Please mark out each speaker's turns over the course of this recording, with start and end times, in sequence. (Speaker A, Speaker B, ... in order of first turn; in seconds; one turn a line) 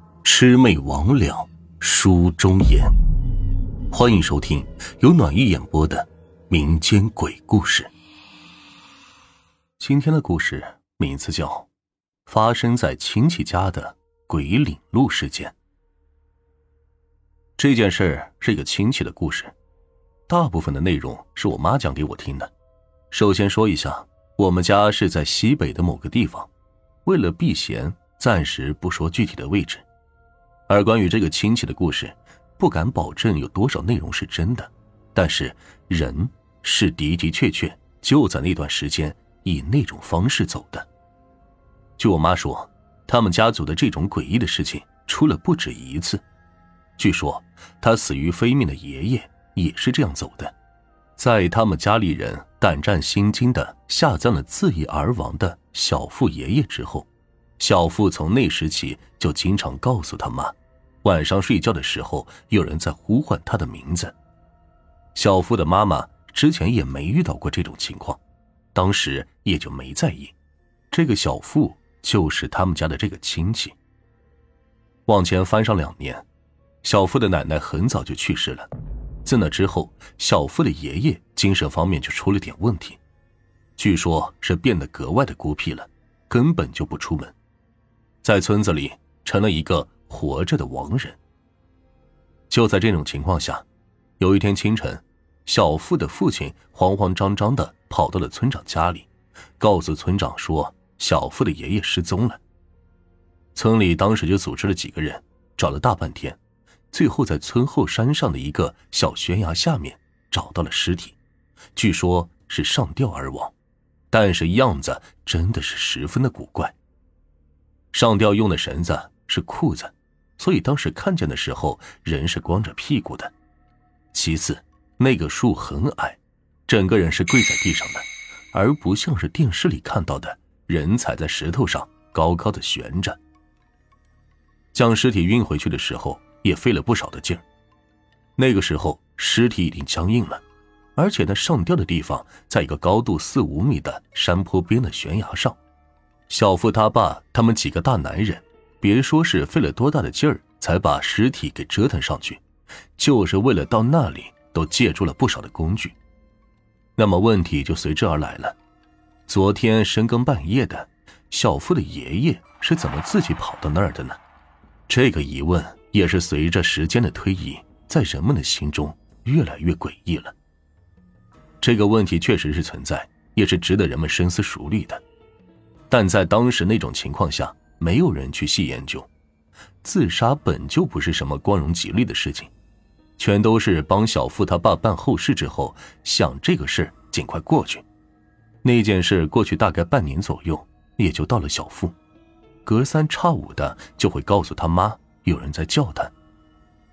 Speaker A: 0.2-2.9
Speaker A: 3.9-7.9
Speaker A: 9.8-11.7
Speaker A: 12.3-15.6
Speaker A: 17.6-19.6
Speaker A: 20.3-22.5
Speaker A: 23.1-26.5
Speaker A: 27.1-29.9
Speaker A: 30.7-40.9
Speaker A: 42.0-46.2
Speaker A: 47.0-50.5
Speaker A: 51.2-57.1
Speaker A: 57.6-64.1
Speaker A: 65.2-68.2
Speaker A: 68.7-70.3
Speaker A: 70.9-73.8
Speaker A: 75.1-76.3
Speaker A: 76.8-78.7
Speaker A: 79.2-83.0
Speaker A: 83.8-87.3
Speaker A: 88.2-91.2
Speaker A: 92.5-93.7
Speaker A: 94.2-102.4
Speaker A: 103.5-106.4
Speaker A: 106.9-111.2
Speaker A: 111.8-113.5
Speaker A: 114.1-116.8
Speaker A: 117.9-123.3
Speaker A: 124.1-133.2
Speaker A: 134.7-137.4
Speaker A: 138.4-140.4
Speaker A: 141.0-145.6
Speaker A: 146.3-152.4
Speaker A: 153.0-156.0
Speaker A: 157.0-158.6
Speaker A: 159.3-164.2
Speaker A: 164.9-170.3
Speaker A: 171.6-175.0
Speaker A: 175.9-179.1
Speaker A: 179.8-182.5
Speaker A: 183.2-187.8
Speaker A: 188.6-192.0
Speaker A: 192.7-196.1